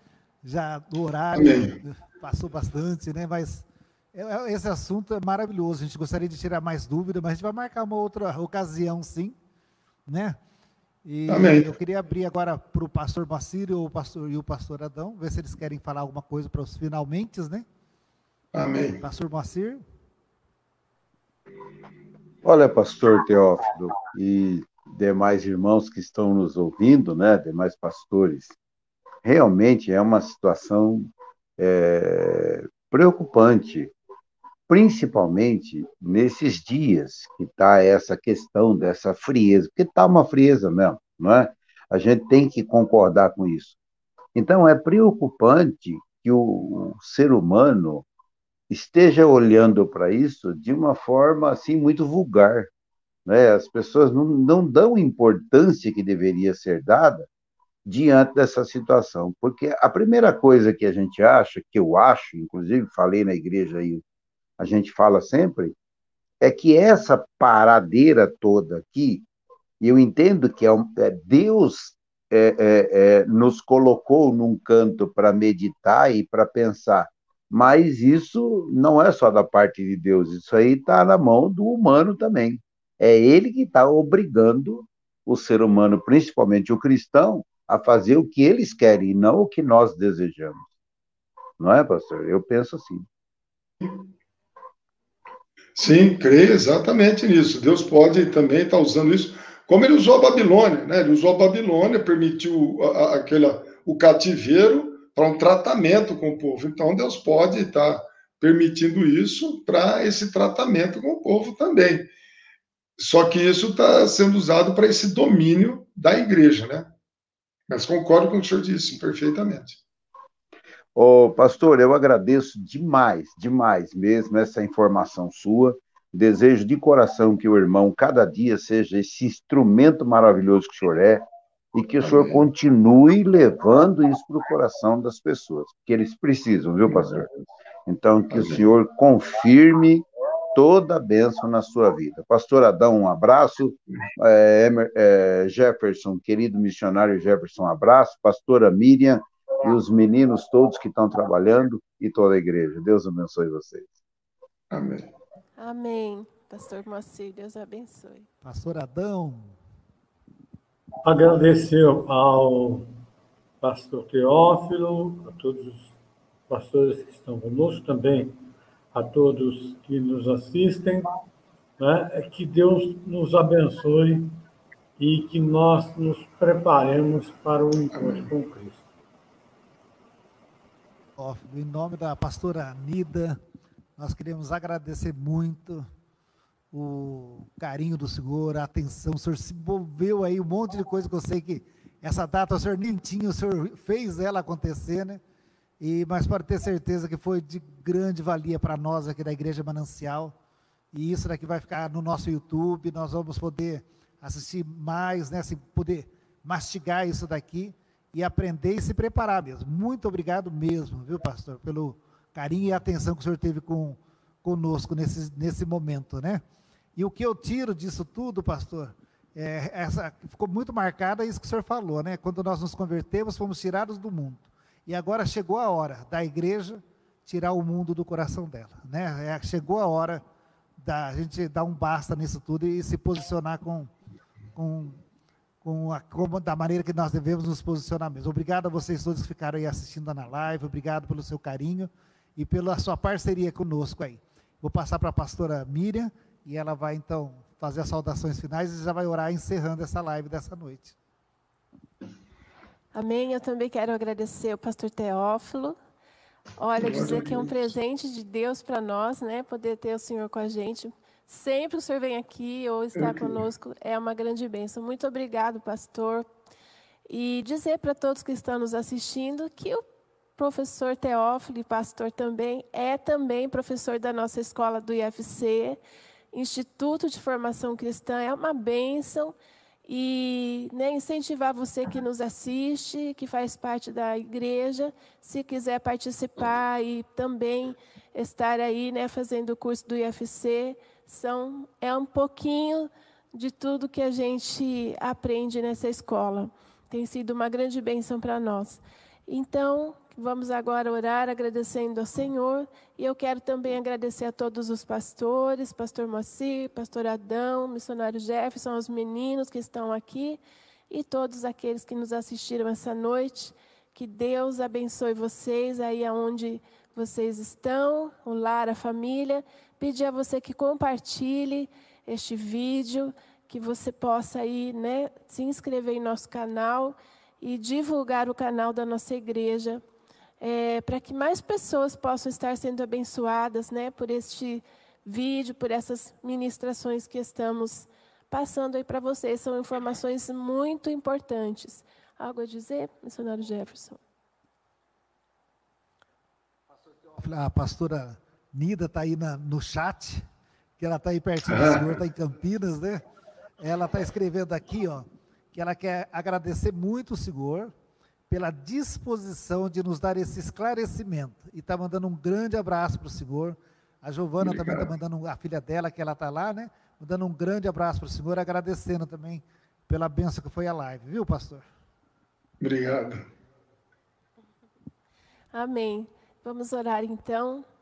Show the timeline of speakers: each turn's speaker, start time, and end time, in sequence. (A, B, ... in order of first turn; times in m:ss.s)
0:00.4-0:09.4 A
0:01.3-0:01.8 B
0:10.1-0:10.4 A
0:11.0-0:17.7 A
0:11.3-0:11.7 B
0:18.5-0:19.0 B
0:19.0-0:19.8 A
0:22.4-0:28.6 C
0:29.2-0:33.9 C
0:34.7-0:43.8 C
0:44.4-0:48.1 C
0:48.7-0:52.7 C
0:53.3-0:57.3 C
0:57.8-1:04.0 C
1:04.6-1:05.8 C
1:06.4-1:09.2 C
1:09.8-1:30.7 C
1:31.6-1:33.1 C
1:35.8-1:52.1 B
1:53.0-1:56.9 B
1:57.7-1:59.8 B
2:01.0-2:17.3 C
2:12.1-2:12.4 B
2:17.9-2:33.9 C
2:34.7-2:35.1 B
2:35.6-2:38.3 D
2:38.4-2:39.6 A
2:41.0-2:42.9 E
2:43.6-2:46.0 E
2:46.5-2:48.4 E
2:48.9-2:51.1 E
2:51.8-2:54.3 E
2:55.0-2:58.8 E
2:58.0-2:58.3 B
3:01.2-3:03.4 A
3:04.0-3:05.9 A
3:06.7-3:15.2 A
3:15.8-3:20.4 A
3:20.9-3:36.4 A
3:37.0-3:50.2 A
3:50.8-3:53.9 A
3:54.6-3:55.0 A
3:55.6-4:11.0 A
4:12.9-4:15.8 D
4:16.6-4:26.3 D
4:16.8-4:17.7 B
4:23.0-4:23.4 B
4:27.1-4:29.8 D
4:30.4-4:35.8 D
4:36.3-5:29.8 D
5:30.4-5:44.0 D
5:47.2-5:50.3 A
5:50.8-5:53.0 A
5:51.5-5:51.9 B
5:53.6-5:57.7 A
5:58.3-6:11.7 A
6:04.4-6:04.9 B
6:12.6-6:13.3 B
6:15.5-6:17.6 D